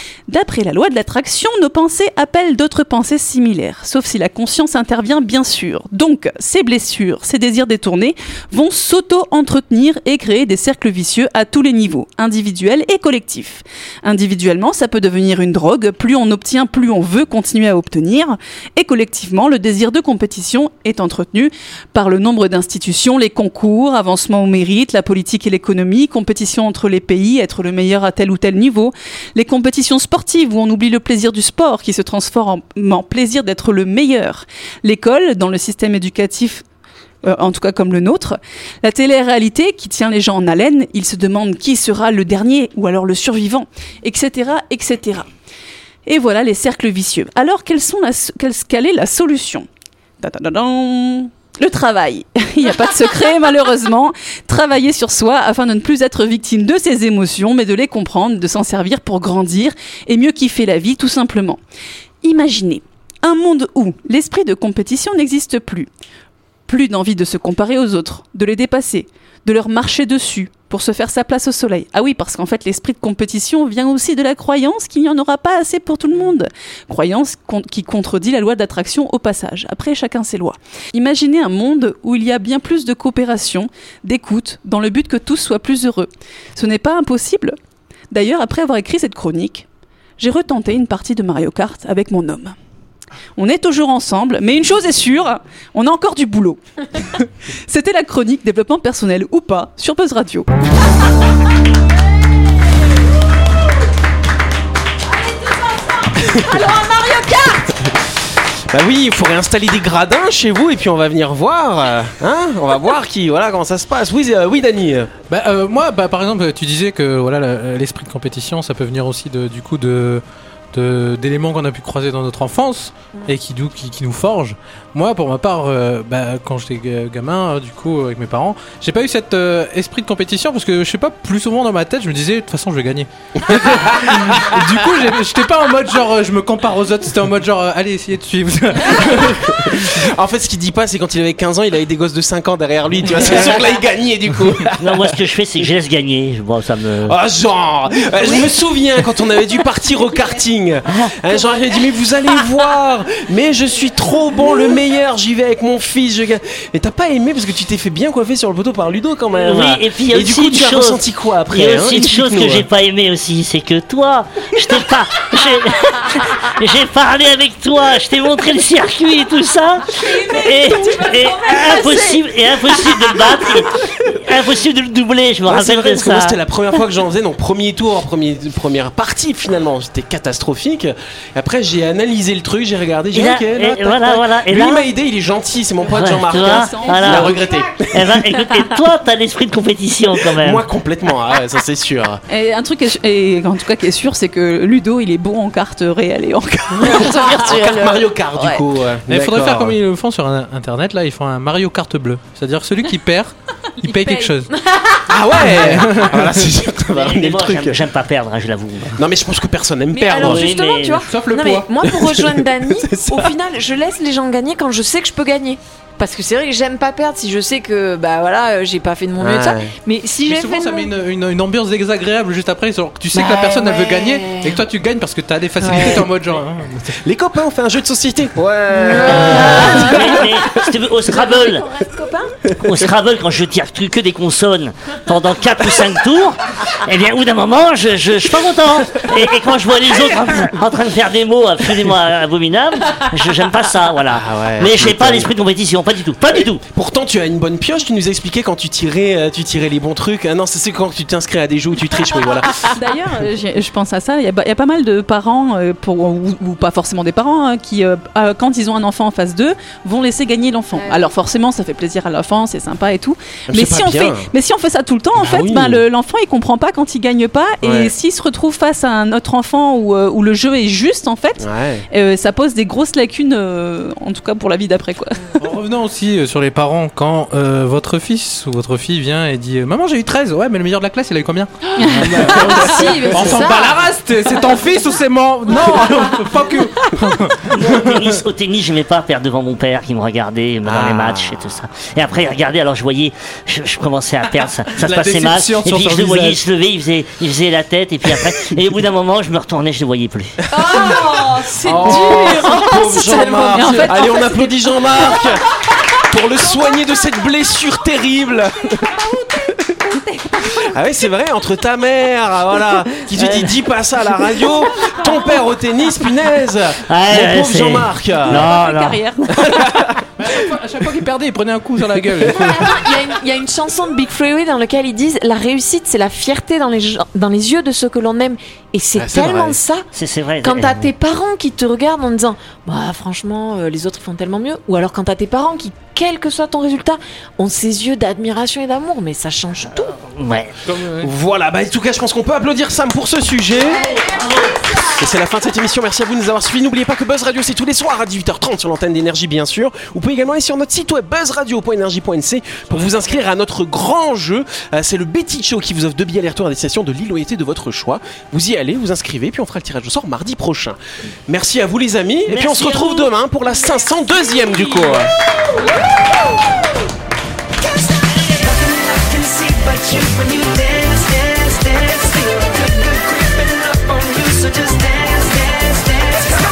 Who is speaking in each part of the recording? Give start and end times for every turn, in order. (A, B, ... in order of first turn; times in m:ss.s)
0:00.3-0:36.6 A
0:37.2-0:45.3 A
0:46.1-0:49.7 A
0:50.2-1:01.6 A
1:02.2-1:05.9 A
1:06.7-1:27.6 A
1:28.1-1:29.7 A
1:30.2-1:32.6 A
1:33.4-1:40.5 A
1:45.2-1:47.8 B
1:46.2-1:46.6 C
1:48.7-1:55.1 C
1:55.3-2:20.0 D
2:13.5-2:14.5 C
2:19.1-2:25.2 C
2:24.8-2:27.2 E
2:27.0-2:42.7 C
2:39.4-2:56.4 E
2:50.3-2:52.0 A
2:50.6-2:52.2 B
2:55.5-3:08.4 C
3:03.1-3:04.9 E
3:05.9-3:10.6 E
3:06.2-3:07.4 A
3:10.3-3:12.2 C
3:12.3-3:18.6 A
3:16.8-3:19.8 C
3:16.9-3:17.9 B
3:19.1-3:24.5 D
3:23.8-3:26.0 B
3:25.1-3:27.8 C
3:25.4-3:26.5 D
3:26.9-3:29.0 E
3:29.0-3:30.5 C
3:29.9-3:40.9 B
3:30.1-3:31.1 E
3:31.1-3:32.0 D
3:31.8-3:33.3 C
3:39.2-3:39.7 C
3:40.2-3:47.0 D
3:43.1-3:44.6 B
3:45.6-3:46.1 B
3:45.7-3:46.0 C
3:47.0-3:50.4 C
3:48.7-3:50.3 B
3:48.9-3:51.7 E
3:51.1-3:52.4 B
3:52.6-4:06.6 E
4:04.1-4:05.3 C
4:06.7-4:12.8 C
4:12.6-4:35.4 A
4:20.8-4:21.1 B
4:23.5-4:24.3 C
4:25.2-4:25.8 C
4:27.6-4:27.9 C
4:31.4-4:31.8 C
4:35.4-4:48.1 D
4:41.8-4:42.8 A
4:42.2-4:43.8 B
4:47.4-5:00.4 E
4:50.6-4:51.5 C
4:54.8-4:56.4 D
5:00.5-5:04.3 B
5:00.6-5:05.5 C
5:01.9-5:04.5 A
5:06.0-5:08.9 C
5:09.0-5:10.6 B
5:10.4-5:18.5 C
5:13.1-5:13.6 E
5:16.9-5:19.0 E
5:18.3-5:19.5 A
5:19.5-5:20.0 C
5:20.2-5:22.7 D
5:22.3-5:29.9 B
5:29.0-5:29.6 C
5:29.9-5:30.9 E
5:30.4-5:40.0 B
5:39.7-5:40.6 E
5:40.7-5:41.1 D
5:41.0-5:43.9 C
5:44.9-6:05.1 C
6:08.4-6:16.3 B